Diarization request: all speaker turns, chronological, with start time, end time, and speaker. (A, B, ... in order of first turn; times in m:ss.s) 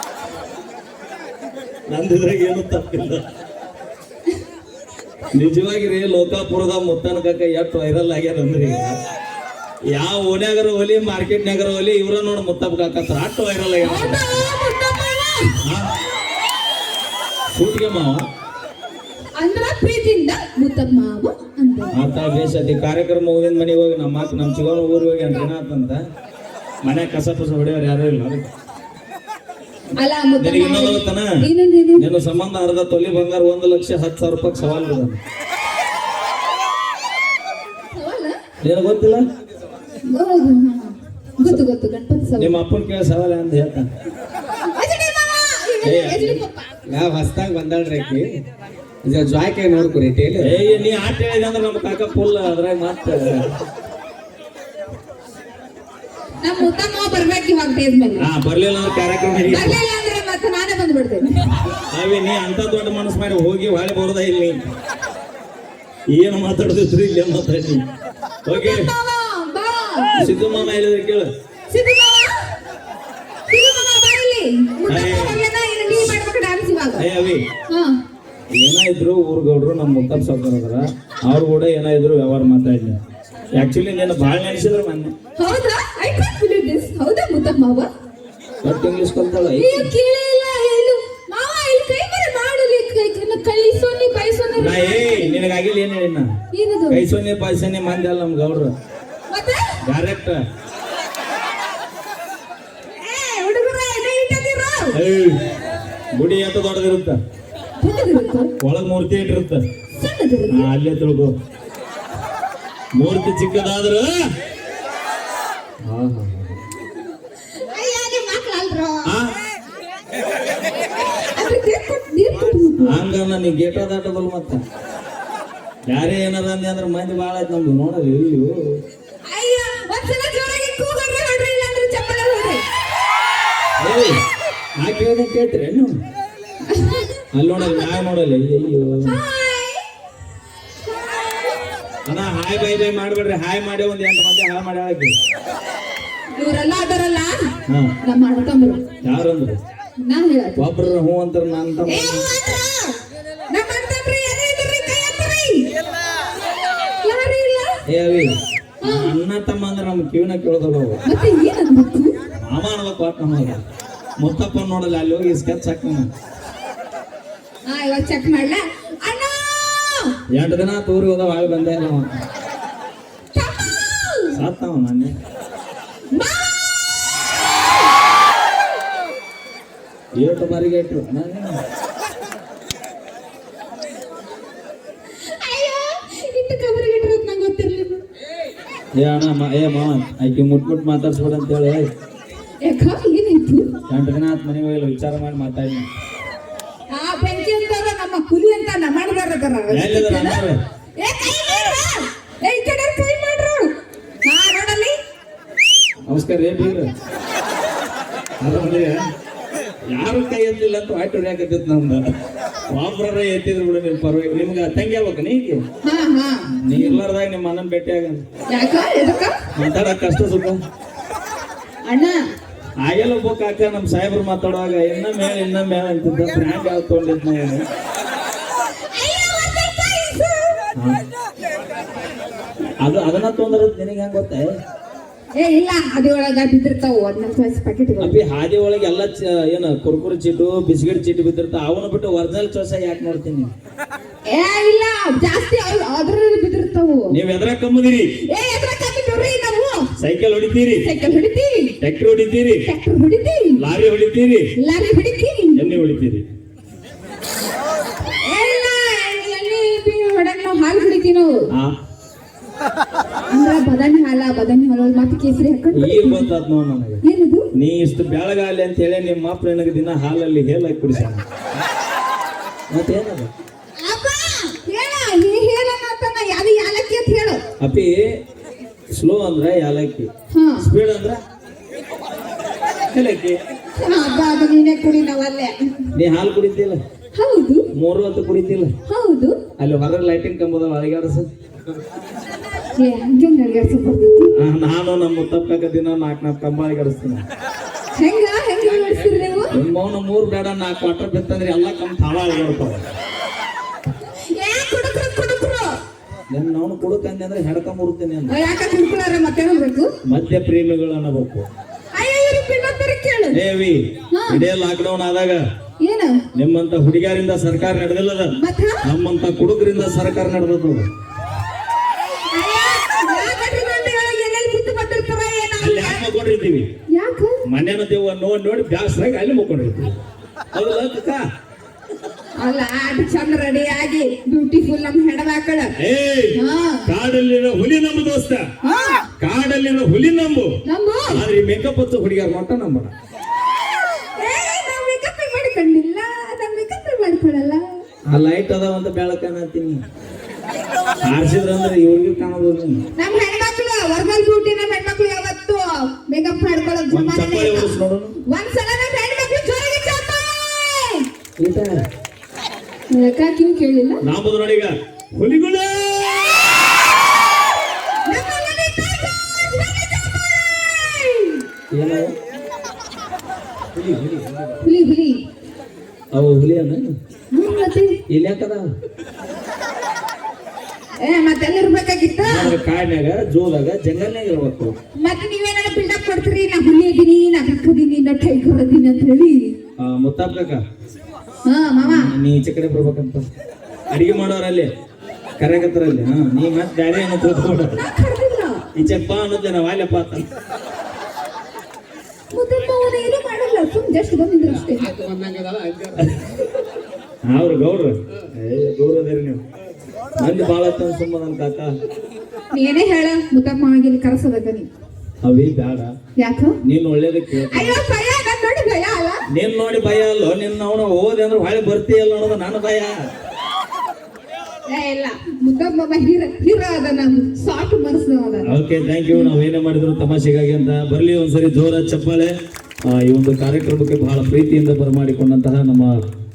0:01.9-0:03.2 A
0:05.3-0:09.0 A
0:09.9-0:14.2 A
0:13.8-0:15.6 B
0:15.6-0:15.9 A
0:17.5-0:18.2 A
0:19.4-0:22.0 B
0:21.9-0:26.0 A
0:26.8-0:28.5 A
0:29.9-0:32.0 B
0:30.4-0:31.3 A
0:31.9-0:35.2 A
0:37.9-0:38.4 B
0:38.6-0:39.2 A
0:40.0-0:42.5 B
0:42.4-0:43.9 A
0:44.6-0:46.7 B
0:45.8-0:46.4 A
0:46.9-0:48.4 C
0:49.0-0:50.6 C
0:50.4-0:53.5 A
0:56.4-0:58.2 B
0:58.2-0:59.8 A
0:59.4-1:01.7 B
1:01.9-1:04.6 A
1:06.1-1:07.8 A
1:08.4-1:08.9 A
1:08.5-1:10.7 B
1:10.2-1:11.3 A
1:11.7-1:12.4 B
1:13.5-1:17.0 B
1:14.9-1:15.4 A
1:17.0-1:17.4 A
1:17.7-1:18.0 B
1:18.6-1:23.0 A
1:23.5-1:25.1 A
1:25.4-1:27.9 B
1:28.6-1:29.9 A
1:29.5-1:35.4 B
1:34.6-1:36.3 A
1:36.5-1:37.0 B
1:36.9-1:38.7 A
1:39.3-1:39.8 B
1:39.8-1:40.4 A
1:43.0-1:45.0 B
1:44.9-1:45.4 A
1:46.1-1:47.2 A
1:47.8-1:48.5 B
1:48.6-1:49.6 A
1:50.0-1:50.7 B
1:50.5-1:51.3 A
1:53.0-1:54.2 A
1:55.9-1:56.6 A
1:57.6-1:59.1 B
1:59.0-1:59.3 A
2:01.1-2:03.0 B
2:02.8-2:04.6 A
2:05.8-2:08.8 A
2:09.2-2:12.6 B
2:13.8-2:14.2 A
2:14.8-2:15.9 A
2:16.6-2:17.9 B
2:17.3-2:19.2 A
2:19.0-2:19.9 B
2:22.0-2:25.1 A
2:26.3-2:28.9 B
2:27.6-2:27.9 A
2:29.0-2:29.6 A
2:30.0-2:30.7 B
2:30.6-2:32.3 A
2:31.8-2:33.0 B
2:33.5-2:35.7 B
2:37.0-2:37.8 B
2:37.9-2:41.0 A
2:38.8-2:39.1 B
2:41.0-2:42.2 B
2:42.4-2:43.6 A
2:44.2-2:46.1 A
2:47.6-2:50.2 B
2:50.3-2:52.1 A
2:53.3-2:54.4 B
2:54.3-2:55.1 A
2:56.1-2:56.7 B
3:00.2-3:01.6 A
3:05.1-3:08.0 B
3:08.9-3:11.9 A
3:12.6-3:13.8 B
3:13.9-3:15.9 A
3:16.9-3:20.4 B
3:19.7-3:20.6 A
3:21.0-3:25.0 B
3:26.1-3:26.9 A
3:28.4-3:29.1 A
3:29.9-3:32.0 A
3:32.7-3:35.6 A
3:35.8-3:37.0 B
3:36.6-3:38.2 A
3:38.5-3:39.4 B
3:39.5-3:40.6 A
3:41.8-3:42.2 B
3:42.8-3:47.6 A
3:48.8-3:50.6 B
3:52.8-3:54.5 A
3:55.3-3:58.2 B
3:58.0-4:03.5 A
4:04.2-4:07.2 B
4:07.1-4:08.1 A
4:08.2-4:09.9 B
4:10.0-4:10.9 A
4:10.8-4:11.8 B
4:11.8-4:12.6 A
4:12.7-4:13.6 B
4:13.6-4:14.5 A
4:14.6-4:15.8 B
4:15.5-4:16.2 A
4:18.2-4:21.4 B
4:23.3-4:26.3 B
4:25.7-4:27.0 A
4:27.0-4:27.5 B
4:27.5-4:31.2 A
4:32.7-4:33.3 A
4:33.8-4:37.4 B
4:37.6-4:38.1 A
4:38.9-4:41.2 A
4:40.3-4:40.7 B
4:42.9-4:43.4 A
4:43.8-4:45.5 B
4:45.9-4:46.8 A
4:47.1-4:47.7 B
4:47.7-4:48.7 A
4:48.8-4:49.4 B
4:49.6-4:51.2 A
4:52.8-4:54.4 B
4:54.3-4:57.2 A
4:57.9-4:59.6 B
4:59.5-5:02.9 A
5:04.0-5:05.8 B
5:06.3-5:08.4 A
5:08.3-5:09.9 B
5:10.0-5:11.5 A
5:11.9-5:13.4 B
5:13.3-5:15.4 A
5:14.1-5:14.4 B
5:15.8-5:16.2 B
5:16.3-5:18.3 A
5:18.4-5:18.8 B
5:18.8-5:20.8 A
5:22.3-5:26.0 B
5:25.6-5:26.6 A
5:26.9-5:27.4 B
5:27.4-5:30.0 A
5:30.5-5:31.2 A
5:32.4-5:35.7 B
5:35.8-5:38.4 A
5:36.3-5:36.9 B
5:38.6-5:39.1 B
5:39.2-5:42.9 A
5:40.6-5:41.2 B
5:44.0-5:47.8 B
5:48.1-5:49.8 A
5:51.0-5:52.8 A
5:53.0-6:01.1 B
5:56.9-5:58.2 A
6:01.4-6:01.8 A
6:02.9-6:04.0 B
6:04.0-6:06.5 A
6:08.0-6:11.5 B
6:11.7-6:12.1 A
6:13.8-6:14.2 A
6:14.6-6:15.2 B
6:16.1-6:17.0 A
6:17.3-6:18.0 B
6:18.1-6:18.7 A
6:21.0-6:22.6 B
6:22.2-6:24.7 A
6:24.9-6:29.6 B
6:29.8-6:30.6 A
6:31.4-6:32.1 B
6:31.8-6:33.2 A
6:33.9-6:34.7 A
6:35.4-6:37.8 A
6:37.8-6:38.7 B
6:38.7-6:40.2 A
6:42.3-6:44.9 B
6:44.9-6:46.0 C
6:46.0-6:46.2 A
6:47.2-6:49.4 A
6:50.2-6:51.7 A
6:52.5-6:54.7 B
6:55.2-6:56.0 A
6:56.2-6:56.6 B
6:56.6-6:57.8 A
6:57.4-6:59.2 B
6:59.3-7:02.9 A
7:04.7-7:08.5 B
7:08.4-7:12.3 A
7:12.8-7:15.9 A